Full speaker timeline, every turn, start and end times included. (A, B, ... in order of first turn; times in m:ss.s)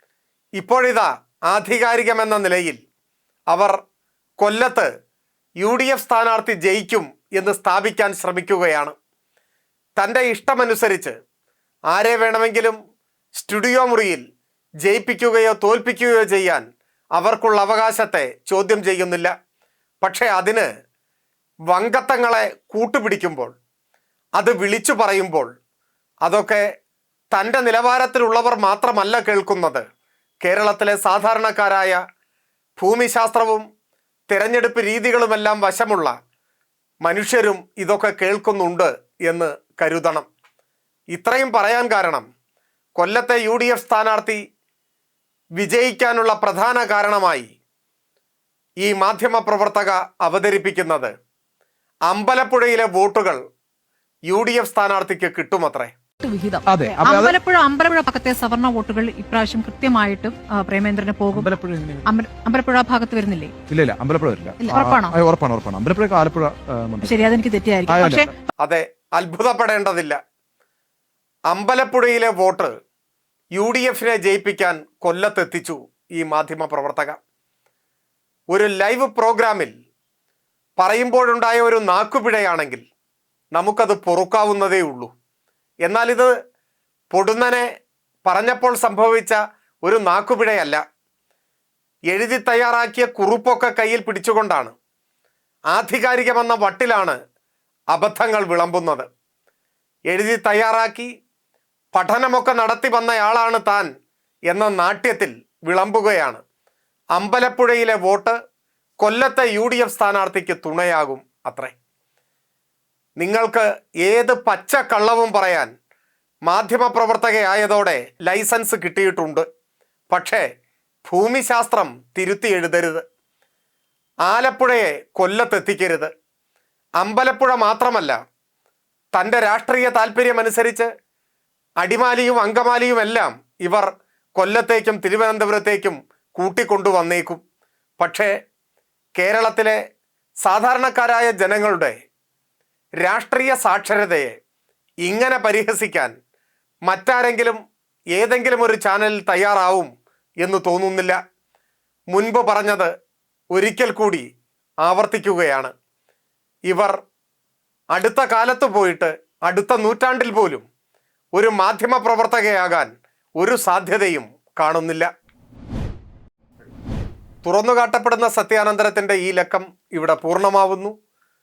0:00.6-0:02.8 A
0:03.5-0:03.8 A
0:04.4-0:04.9 A
0:05.6-0:08.9 A
0:10.0-0:11.2 A
0:11.9-0:12.8 A
0:13.4-0:14.2 A
0:14.8-0:16.6 A
0:17.2-0:19.3 A
0:20.0-0:20.7 A
0:21.7-0:23.5 A
0:24.4-0:25.5 A
0:26.2-0:26.6 A
0:27.3-0:29.8 A
0:30.4-0:32.0 A
0:32.8-0:33.6 A
0:34.3-0:36.1 A
0:37.0-0:40.2 A
0:41.1-0:42.2 A
0:43.0-0:44.4 A
0:45.6-0:47.5 A
0:48.8-0:51.1 A
0:52.1-0:53.4 A
0:54.3-0:55.9 A
0:56.2-1:01.5 B
0:56.6-0:57.4 C
1:01.3-1:02.1 C
1:02.0-1:03.5 B
1:03.7-1:07.2 C
1:04.6-1:05.1 B
1:07.0-1:08.3 B
1:07.9-1:08.3 C
1:08.6-1:10.2 A
1:11.5-1:12.7 A
1:13.6-1:17.2 A
1:18.5-1:19.7 A
1:20.8-1:22.8 A
1:23.5-1:25.1 A
1:25.8-1:26.3 A
1:27.1-1:27.7 A
1:28.2-1:30.8 A
1:32.1-1:34.7 A
1:35.7-1:37.2 A
1:37.9-1:39.1 A
1:40.1-1:41.1 A
1:41.9-1:43.9 A
1:44.5-1:46.4 A
1:47.2-1:48.4 A
1:49.0-1:51.7 A
1:53.2-1:55.7 A
1:56.4-1:59.4 A
2:00.1-2:00.4 A
2:01.0-2:03.0 A
2:04.3-2:06.1 A
2:07.0-2:08.2 A
2:09.1-2:10.9 A
2:11.8-2:17.4 A
2:18.0-2:18.3 A
2:19.2-2:19.8 A
2:20.4-2:21.9 A
2:23.0-2:24.3 A
2:25.0-2:26.1 A
2:26.8-2:27.6 A
2:28.1-2:29.9 A
2:30.4-2:31.2 A
2:32.1-2:32.9 A
2:33.5-2:34.2 A
2:34.8-2:35.7 A
2:36.7-2:37.0 A
2:37.9-2:40.6 A
2:41.3-2:45.1 A
2:47.4-2:50.9 A